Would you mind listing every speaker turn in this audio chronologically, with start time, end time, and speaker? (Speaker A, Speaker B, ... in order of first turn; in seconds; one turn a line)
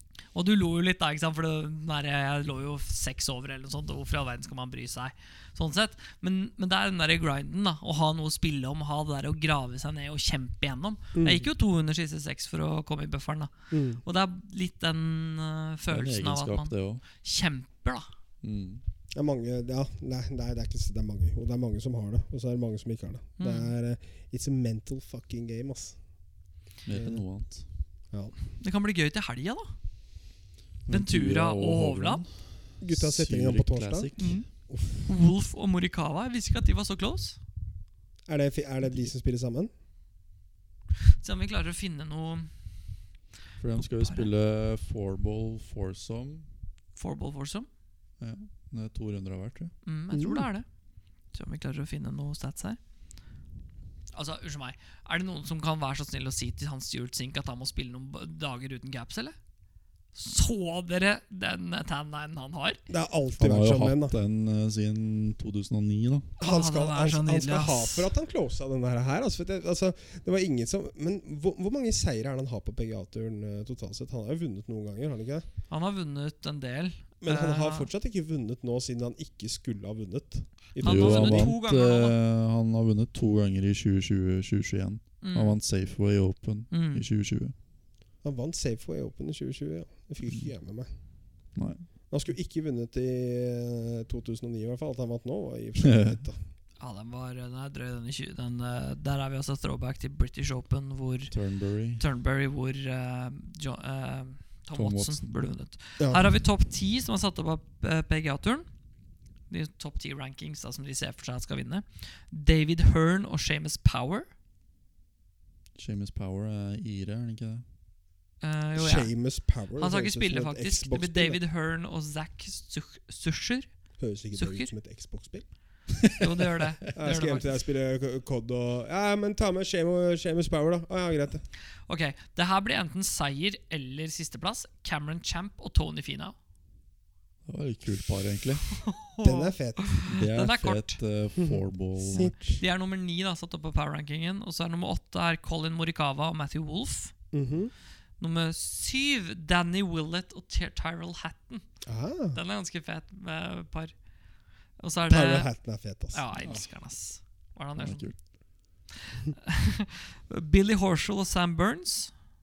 Speaker A: 0.3-18.1
Speaker B: 11.2-11.5
Speaker B: 13.7-14.0
Speaker C: 15.9-17.0
Speaker C: 18.4-18.8
Speaker B: 19.1-26.0
Speaker A: 23.4-23.7
Speaker C: 26.9-27.6
Speaker B: 26.9-27.2
Speaker A: 28.6-29.8
Speaker C: 30.9-34.4
Speaker A: 30.9-32.2
Speaker B: 32.8-34.1
Speaker A: 34.2-34.5
Speaker B: 34.7-35.1
Speaker A: 35.0-37.4
Speaker B: 38.3-39.7
Speaker A: 41.1-42.5
Speaker C: 43.6-46.5
Speaker A: 43.8-44.3
Speaker A: 47.0-47.7
Speaker C: 48.2-49.7
Speaker A: 49.8-50.7
Speaker B: 50.1-50.5
Speaker A: 51.3-52.8
Speaker A: 54.1-59.4
Speaker A: 60.1-62.8
Speaker B: 62.9-64.2
Speaker C: 63.4-66.3
Speaker B: 66.4-75.5
Speaker A: 66.4-68.1
Speaker A: 75.7-77.9
Speaker B: 77.2-81.5
Speaker A: 80.8-82.2
Speaker C: 80.8-87.5
Speaker A: 85.2-85.6
Speaker A: 86.7-87.0
Speaker B: 88.2-90.9
Speaker C: 91.5-91.8
Speaker B: 92.1-96.4
Speaker C: 95.8-96.2
Speaker A: 96.8-101.3
Speaker C: 101.3-102.0
Speaker A: 102.0-108.7
Speaker C: 104.8-105.4
Speaker B: 106.0-106.3
Speaker A: 109.5-114.3
Speaker C: 115.8-117.6
Speaker A: 118.4-119.1
Speaker B: 118.8-121.4
Speaker A: 119.8-123.7
Speaker B: 124.0-125.5
Speaker A: 124.3-124.7
Speaker A: 126.2-127.5
Speaker B: 127.0-131.5
Speaker A: 131.9-136.3
Speaker C: 137.5-138.8
Speaker A: 138.8-141.0
Speaker B: 139.2-140.0
Speaker C: 140.1-142.4
Speaker B: 141.4-142.6
Speaker A: 142.1-147.1
Speaker B: 147.3-147.7
Speaker A: 148.2-151.7
Speaker B: 151.9-152.4
Speaker A: 152.3-153.9
Speaker A: 154.8-155.5
Speaker B: 155.1-156.2
Speaker A: 156.1-158.3
Speaker C: 156.4-156.7
Speaker C: 157.8-158.2
Speaker A: 159.1-162.1